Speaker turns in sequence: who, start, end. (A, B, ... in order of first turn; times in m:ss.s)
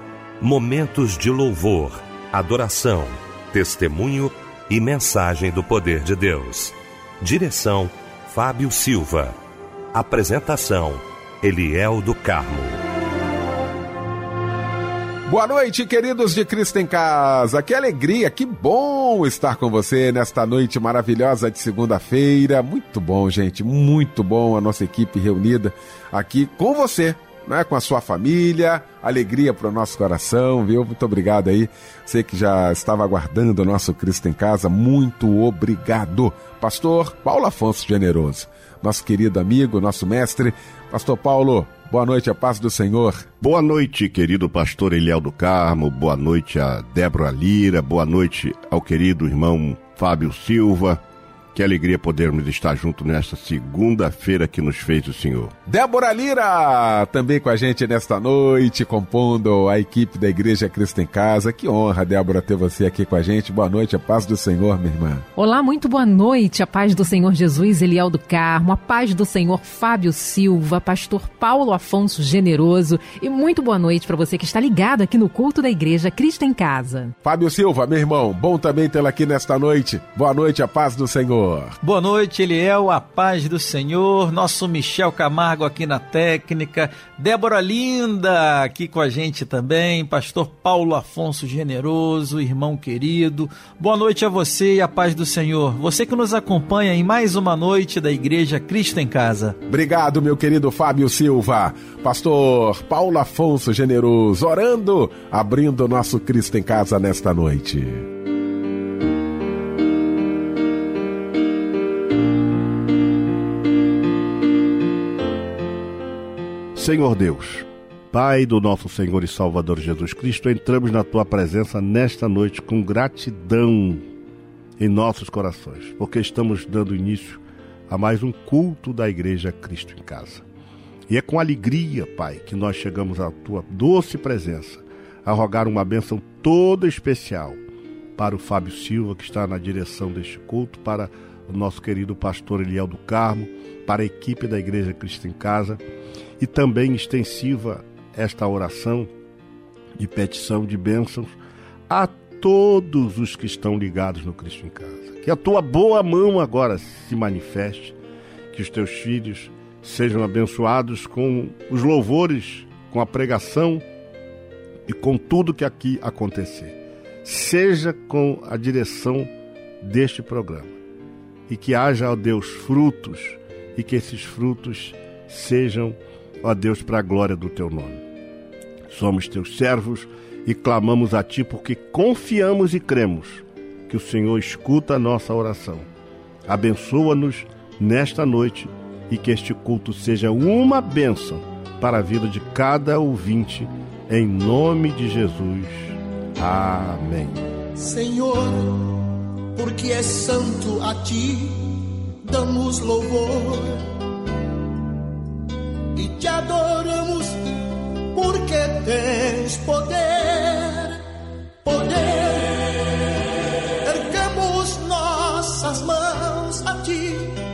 0:00.4-0:09.3 A
0:09.9-0:12.8 A
0:15.2-0:43.3 B
0:43.4-0:51.0 C
0:51.5-0:55.5 C
0:55.6-1:05.2 B
1:05.4-1:17.1 D
1:17.2-1:21.8 B
1:21.8-1:39.6 E
1:39.7-1:48.1 B
1:56.7-2:04.0 C
2:04.8-2:10.4 C
2:11.1-2:17.6 C
2:18.2-2:25.8 C
2:26.4-2:29.1 C
2:30.0-2:31.4 C
2:31.9-2:38.0 C
2:38.5-2:43.8 C
2:44.9-2:49.3 C
2:49.8-2:50.8 C
2:51.5-2:58.0 C
2:58.9-3:05.9 C
3:06.5-3:17.4 C
3:17.8-3:19.0 F
3:19.5-3:23.9 F
3:25.9-3:27.4 F
3:28.1-3:31.0 F
3:31.6-3:32.6 F
3:33.8-3:37.4 F